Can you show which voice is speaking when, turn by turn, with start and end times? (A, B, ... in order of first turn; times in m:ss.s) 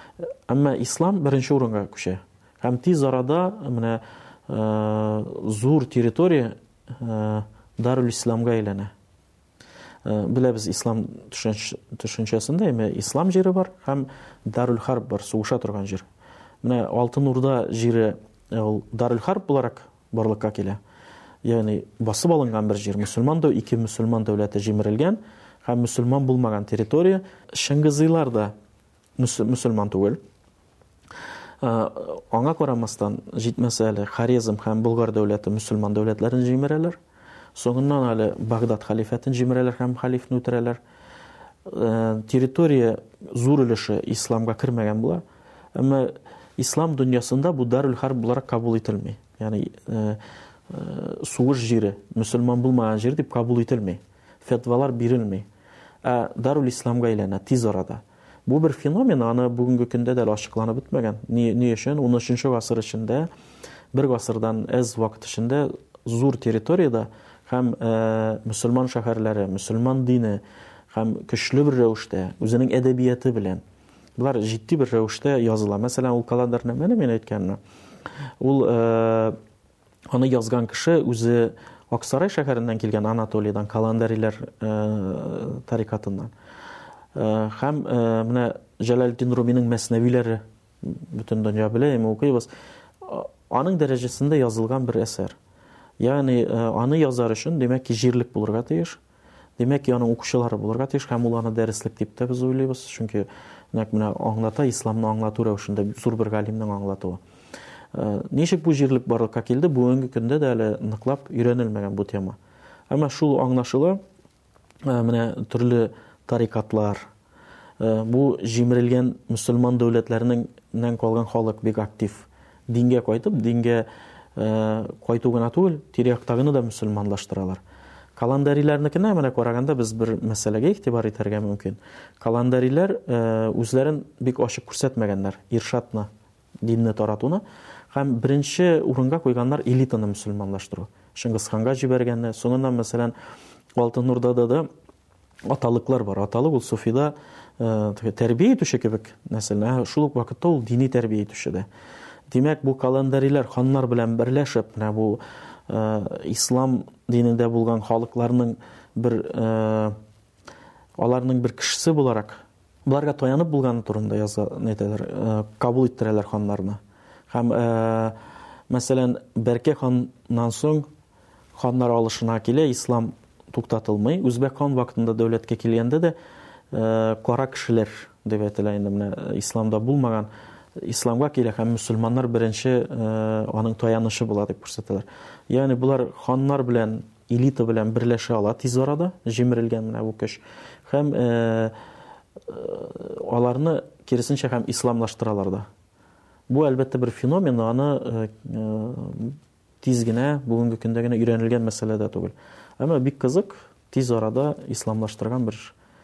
0:00.5-0:08.9 A
0:10.0-0:16.0 A
0:16.6-0:20.8 A
0:21.4-0:28.5 A
0:29.2-0:30.2 A
0:31.6-0:37.0 A
0:37.5-0:40.8 A
0:41.6-0:45.2 A
0:45.7-0:55.5 A
0:56.0-1:03.3 A
1:03.9-1:13.6 A
1:14.2-1:17.6 A
1:18.4-1:19.4 A
1:20.1-1:26.3 A
1:27.1-1:32.5 A
1:33.0-1:35.4 A
1:36.0-1:39.0 A
1:39.6-1:47.2 A
1:47.9-1:52.4 A
1:52.9-1:54.0 A
1:54.8-1:57.0 A
1:57.8-2:07.6 A
2:08.2-2:16.1 A
2:16.6-2:23.1 A
2:23.8-2:24.7 A
2:25.4-2:31.7 A
2:32.3-2:40.0 A
2:41.0-2:48.2 A
2:48.7-2:50.9 A
2:51.6-2:56.2 A
2:56.7-3:11.8 A
3:12.4-3:15.7 A
3:16.5-3:25.7 A